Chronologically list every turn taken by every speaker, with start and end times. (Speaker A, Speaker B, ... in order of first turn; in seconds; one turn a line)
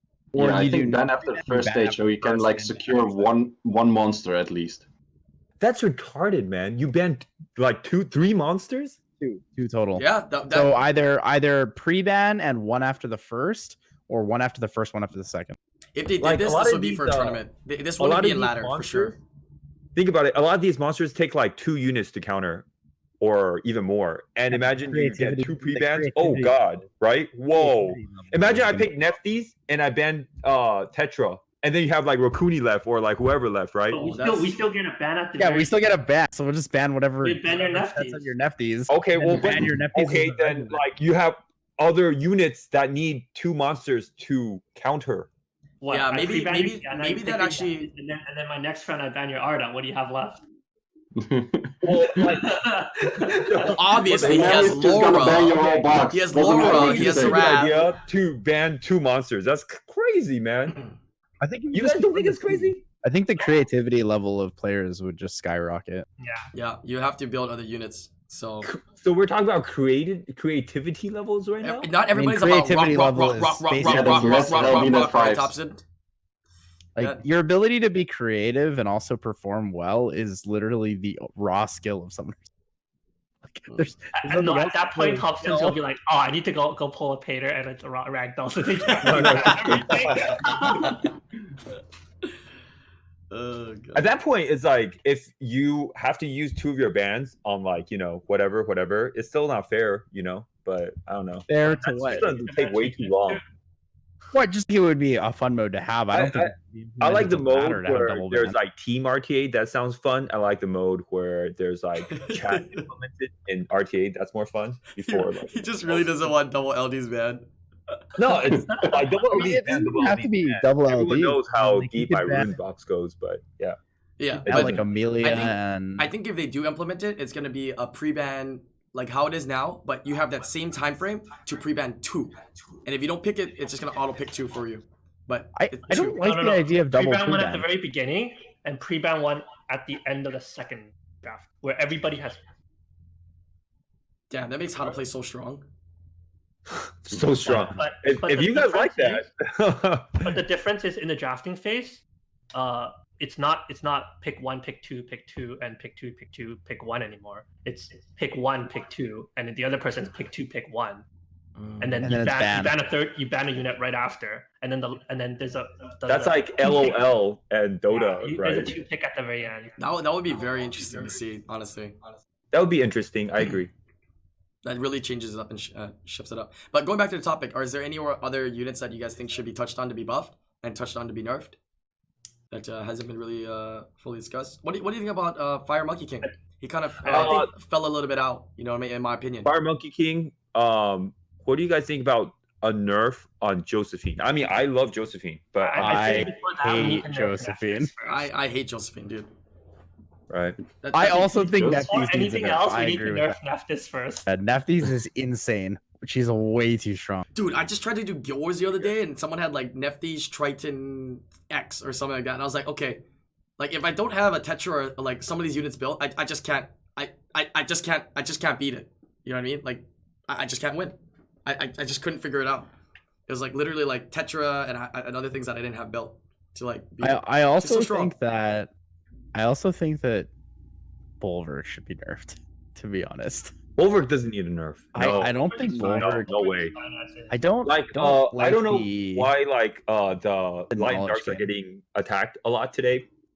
Speaker A: 0.3-3.3
Speaker B: 0.3-4.8
Speaker C: 5.6-9.0
Speaker A: 9.2-15.6
Speaker D: 9.9-10.7
Speaker D: 15.9-19.2
Speaker C: 16.2-17.4
Speaker C: 18.0-19.2
Speaker C: 19.9-22.6
Speaker C: 23.2-34.0
Speaker A: 24.5-26.6
Speaker A: 27.5-28.9
Speaker E: 33.9-35.7
Speaker D: 33.9-34.5
Speaker A: 35.4-40.8
Speaker E: 37.2-38.3
Speaker C: 38.9-45.3
Speaker E: 45.8-50.4
Speaker D: 45.9-47.9
Speaker B: 51.1-51.8
Speaker C: 51.8-55.2
Speaker E: 52.1-53.8
Speaker D: 53.8-57.8
Speaker B: 54.1-57.7
Speaker E: 55.3-55.9
Speaker C: 56.4-60.8
Speaker D: 60.7-60.9
Speaker A: 61.4-66.0
Speaker C: 61.7-62.8
Speaker E: 66.2-66.5
Speaker D: 66.5-68.7
Speaker C: 68.6-71.9
Speaker D: 71.6-75.8
Speaker A: 72.1-75.0
Speaker B: 73.8-75.5
Speaker A: 77.0-82.4
Speaker D: 77.0-77.2
Speaker A: 83.4-85.8
Speaker E: 84.2-91.0
Speaker C: 89.0-90.4
Speaker D: 89.0-89.7
Speaker D: 93.3-94.0
Speaker C: 93.9-103.4
Speaker A: 101.5-102.2
Speaker E: 101.6-103.4
Speaker A: 104.3-108.6
Speaker C: 106.1-116.3
Speaker D: 112.1-112.8
Speaker D: 115.0-118.0
Speaker C: 118.2-123.8
Speaker E: 118.4-119.5
Speaker A: 119.3-122.5
Speaker D: 124.2-136.2
Speaker C: 124.4-124.8
Speaker A: 124.5-126.1
Speaker A: 135.6-137.7
Speaker E: 136.2-142.4
Speaker D: 144.3-145.6
Speaker C: 146.7-150.4
Speaker E: 147.5-149.2
Speaker E: 150.2-152.0
Speaker E: 152.5-161.0
Speaker D: 161.6-162.0
Speaker E: 161.8-167.0
Speaker A: 162.0-162.7
Speaker C: 166.1-168.8
Speaker E: 167.9-169.8
Speaker D: 169.8-172.0
Speaker C: 172.5-173.7
Speaker D: 174.6-181.6
Speaker D: 182.5-189.5
Speaker E: 187.0-187.5
Speaker C: 187.1-187.5
Speaker C: 189.4-196.3
Speaker E: 195.6-198.3
Speaker A: 195.8-197.9
Speaker D: 198.0-199.3
Speaker C: 200.3-200.6
Speaker D: 200.8-201.8
Speaker A: 200.9-203.4
Speaker E: 201.7-204.3
Speaker A: 204.3-207.2
Speaker D: 207.3-213.0
Speaker D: 213.6-222.7
Speaker D: 223.3-228.1
Speaker A: 227.0-228.7
Speaker A: 229.3-230.3
Speaker A: 231.2-233.5
Speaker C: 233.8-236.7
Speaker A: 234.9-236.3
Speaker E: 235.5-237.3
Speaker A: 237.3-239.3
Speaker C: 237.6-243.1
Speaker A: 240.7-241.5